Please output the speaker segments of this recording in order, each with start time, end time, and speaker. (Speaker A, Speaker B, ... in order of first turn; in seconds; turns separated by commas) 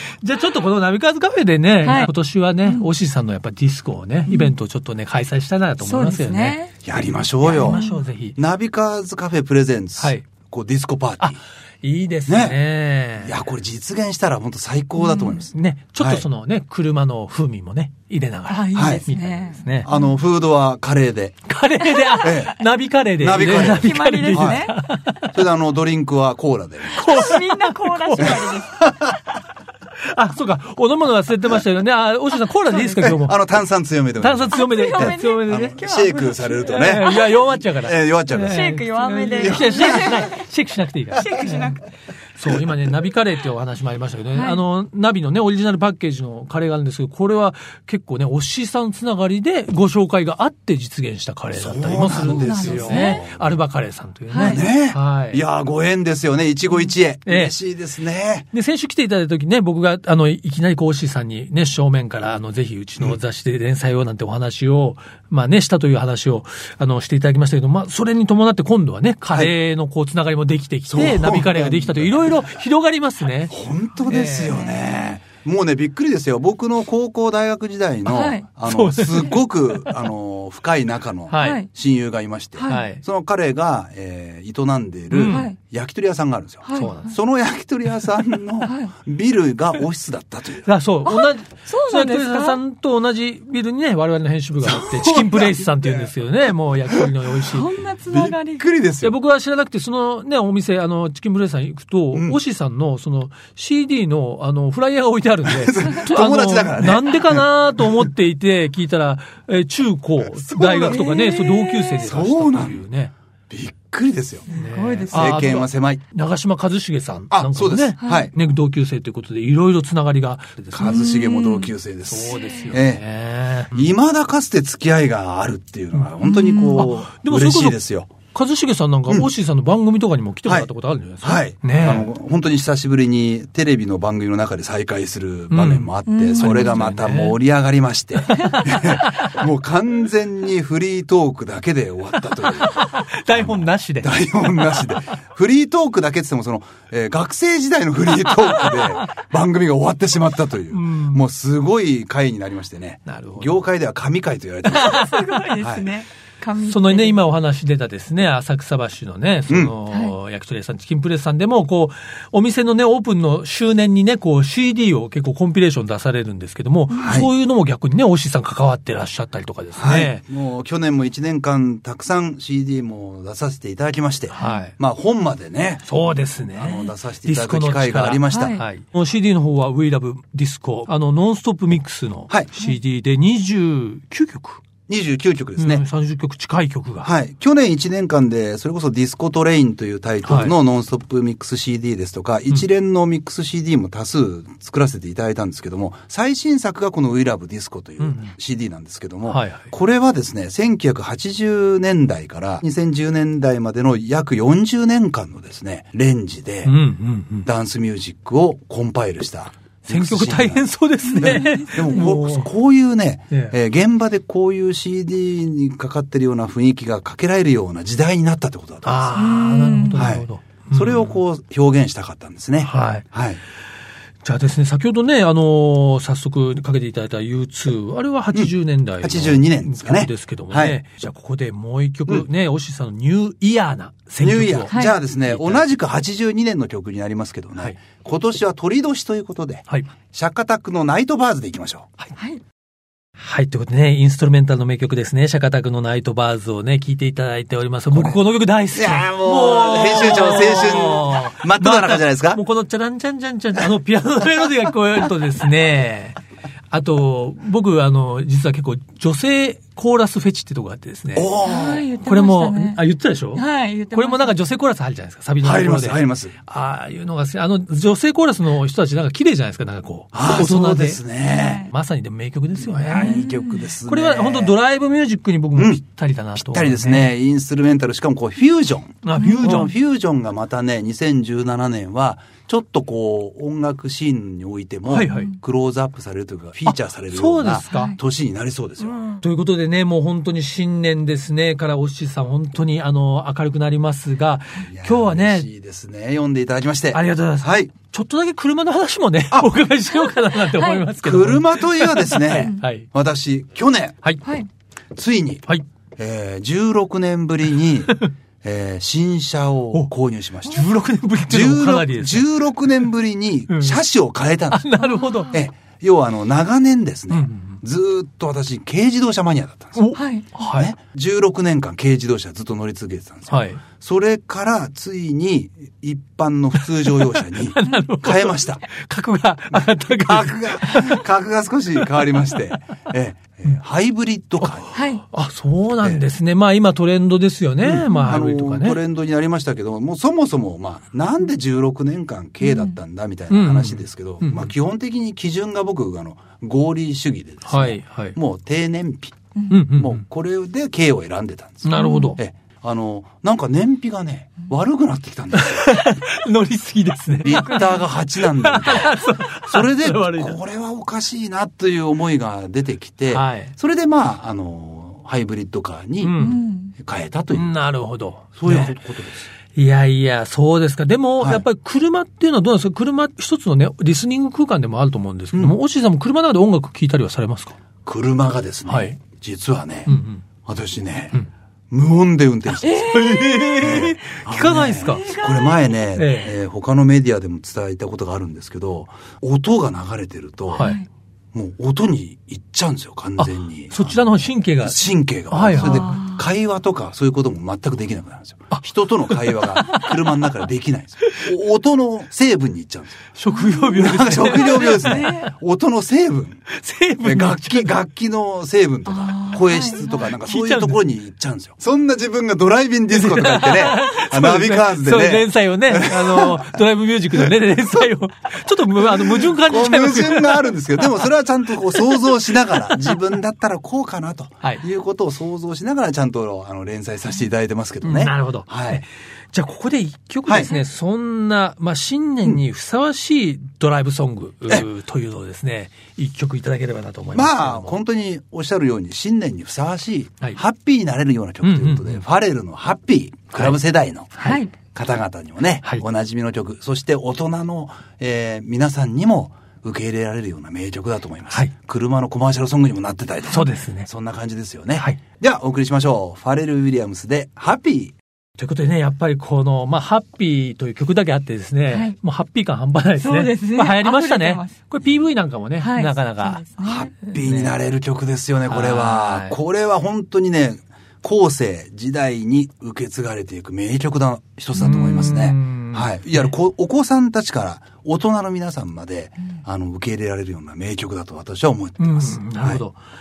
Speaker A: 0.2-6.6, Speaker B: 1.8-2.1, Speaker B: 4.3-4.5, Speaker B: 5.8-6.7, Speaker C: 6.8-7.8, Speaker A: 7.4-8.4, Speaker B: 7.5-8.0, Speaker C: 8.3-11.4, Speaker A: 10.0-10.3, Speaker A: 11.2-13.3, Speaker C: 12.3-12.6, Speaker C: 13.2-16.2, Speaker B: 15.0-15.4, Speaker A: 15.5-19.9, Speaker B: 18.5-20.1, Speaker C: 18.7-19.0, Speaker C: 19.8-21.4, Speaker A: 21.5-25.3, Speaker B: 21.8-22.3, Speaker C: 22.2-22.5, Speaker C: 23.2-24.7, Speaker B: 23.4-24.7, Speaker C: 25.3-27.1, Speaker B: 26.9-28.9, Speaker A: 27.0-28.6, Speaker C: 28.2-29.2, Speaker A: 30.1-33.4, Speaker B: 32.7-33.1, Speaker C: 33.0-38.7, Speaker A: 34.2-35.8, Speaker B: 34.5-37.5, Speaker A: 36.6-41.7, Speaker B: 38.3-40.4, Speaker C: 39.4-40.2, Speaker B: 41.1-41.8, Speaker A: 42.4-55.4, Speaker B: 44.3-44.6, Speaker C: 51.5-53.6, Speaker B: 52.2-53.2, Speaker B: 54.3-54.6, Speaker C: 54.4-58.5, Speaker A: 57.2-57.5, Speaker A: 58.5-73.5, Speaker C: 70.9-72.5, Speaker C: 73.5-90.7, Speaker B: 73.9-75.0, Speaker A: 74.1-74.5, Speaker B: 78.0-78.4, Speaker A: 78.6-80.1, Speaker A: 81.3-81.6, Speaker B: 81.4-81.7, Speaker B: 82.6-82.9, Speaker A: 82.7-83.0, Speaker A: 85.1-85.5, Speaker B: 85.3-85.5, Speaker B: 86.6-87.1, Speaker A: 86.7-87.2, Speaker B: 88.6-88.9, Speaker A: 90.6-97.7, Speaker B: 91.0-92.6, Speaker C: 94.6-96.1, Speaker B: 97.4-98.7, Speaker C: 98.1-99.1, Speaker A: 99.0-113.1, Speaker C: 102.1-102.4, Speaker C: 105.4-108.1, Speaker C: 110.3-111.2, Speaker B: 110.9-112.1, Speaker C: 112.0-112.8, Speaker C: 113.5-114.5, Speaker B: 114.5-115.5, Speaker A: 114.5-121.0, Speaker C: 115.1-116.0, Speaker C: 117.3-118.3, Speaker B: 118.0-118.3, Speaker C: 120.7-123.0, Speaker B: 120.8-121.7, Speaker A: 122.1-123.9, Speaker B: 122.3-122.7, Speaker C: 123.7-128.1, Speaker B: 126.2-126.9, Speaker A: 126.7-127.8, Speaker A: 128.3-132.1, Speaker C: 130.4-130.7, Speaker C: 131.2-155.0, Speaker A: 135.5-137.4, Speaker B: 136.1-136.8, Speaker A: 138.3-139.4, Speaker A: 142.3-144.2, Speaker A: 148.4-148.9, Speaker A: 150.7-151.2, Speaker A: 153.1-153.7, Speaker B: 154.7-157.2, Speaker A: 154.8-155.1, Speaker C: 155.6-155.9, Speaker A: 156.7-170.2, Speaker C: 159.5-159.7, Speaker B: 159.9-160.1, Speaker B: 166.9-167.2, Speaker C: 167.0-167.3, Speaker C: 169.8-175.9, Speaker A: 174.3-174.8, Speaker B: 174.4-174.6, Speaker A: 175.8-184.6, Speaker C: 176.5-178.6, Speaker B: 178.3-178.6, Speaker C: 184.9-185.8, Speaker A: 185.6-187.1, Speaker C: 187.0-206.8, Speaker A: 190.2-190.5, Speaker A: 198.0-198.3, Speaker A: 199.2-199.7, Speaker A: 206.6-207.5, Speaker C: 207.4-210.7, Speaker A: 209.8-212.5, Speaker B: 211.0-212.1, Speaker C: 211.2-219.2, Speaker A: 213.3-213.6, Speaker A: 218.8-221.2, Speaker B: 219.1-220.1, Speaker C: 219.9-223.4, Speaker A: 222.6-223.0, Speaker A: 224.2-235.7, Speaker C: 228.3-230.8, Speaker C: 234.2-241.9, Speaker B: 234.7-234.9, Speaker B: 242.2-242.4, Speaker A: 243.2-256.2, Speaker C: 247.9-248.2, Speaker C: 248.7-252.4, Speaker A: 256.7-261.3, Speaker C: 261.1-261.9, Speaker B: 261.4-264.4, Speaker A: 262.0-271.2, Speaker C: 265.4-266.4, Speaker C: 270.1-271.6, Speaker B: 271.2-271.7, Speaker A: 271.7-277.1, Speaker C: 272.6-274.6, Speaker B: 272.9-273.7, Speaker C: 275.6-275.8, Speaker C: 276.3-289.0, Speaker A: 279.0-279.7, Speaker B: 279.2-279.7, Speaker A: 284.9-285.3, Speaker B: 285.1-285.4, Speaker A: 286.6-287.9, Speaker B: 287.7-288.0, Speaker A: 288.8-295.5, Speaker C: 294.6-297.7, Speaker A: 296.9-302.9, Speaker B: 300.5-300.9, Speaker C: 301.0-304.0, Speaker B: 302.2-302.6, Speaker B: 304.2-304.5, Speaker C: 304.9-305.4, Speaker C: 306.0-310.7, Speaker A: 310.4-312.9, Speaker C: 311.3-314.7, Speaker A: 313.5-313.8, Speaker A: 314.5-315.3, Speaker B: 314.8-315.4, Speaker C: 315.3-319.8, Speaker A: 317.1-317.6, Speaker A: 319.8-320.7, Speaker B: 319.9-320.3, Speaker C: 320.4-328.7, Speaker A: 323.3-323.6, Speaker A: 326.5-331.0, Speaker C: 329.5-334.7, Speaker A: 331.8-332.4, Speaker A: 334.4-338.8, Speaker B: 334.7-335.0, Speaker C: 335.7-336.0, Speaker C: 337.6-355.7, Speaker B: 337.9-338.2, Speaker B: 342.4-342.8, Speaker A: 343.3-344.5, Speaker A: 347.4-348.1, Speaker A: 349.5-350.0, Speaker A: 351.6-352.2, Speaker B: 351.7-352.2, Speaker A: 355.3-360.4, Speaker C: 357.2-367.5, Speaker A: 363.1-363.5, Speaker A: 366.0-366.4, Speaker B: 366.2-366.7, Speaker A: 367.3-368.7, Speaker C: 368.4-369.3, Speaker A: 369.5-377.6, Speaker C: 371.2-371.4, Speaker C: 377.8-379.9, Speaker A: 378.7-379.0, Speaker A: 379.9-380.2, Speaker C: 380.4-381.2, Speaker C: 381.7-390.7, Speaker B: 382.6-383.6, Speaker A: 382.7-385.1, Speaker B: 384.7-385.7, Speaker A: 385.9-386.4, Speaker B: 390.5-390.9, Speaker C: 391.3-403.0, Speaker A: 393.2-396.0, Speaker B: 395.5-396.2, Speaker A: 398.5-400.2, Speaker A: 403.1-405.3, Speaker B: 403.3-405.3, Speaker C: 403.8-406.4, Speaker A: 406.5-407.7, Speaker C: 407.0-416.5, Speaker B: 408.9-410.1, Speaker A: 410.0-410.8, Speaker A: 412.9-421.1, Speaker C: 417.2-417.8, Speaker C: 418.8-428.8, Speaker A: 421.7-423.0, Speaker A: 427.8-437.7, Speaker C: 430.2-430.5, Speaker C: 437.1-444.1, Speaker A: 441.4-442.0, Speaker A: 444.1-444.4, Speaker B: 444.2-444.5, Speaker C: 444.7-457.9, Speaker A: 453.3-453.9, Speaker A: 458.4-466.5, Speaker B: 461.7-461.9, Speaker B: 463.0-464.5, Speaker B: 465.6-466.9, Speaker C: 466.6-482.6, Speaker A: 467.1-467.6, Speaker A: 468.5-469.4, Speaker A: 474.5-476.3, Speaker A: 481.8-482.8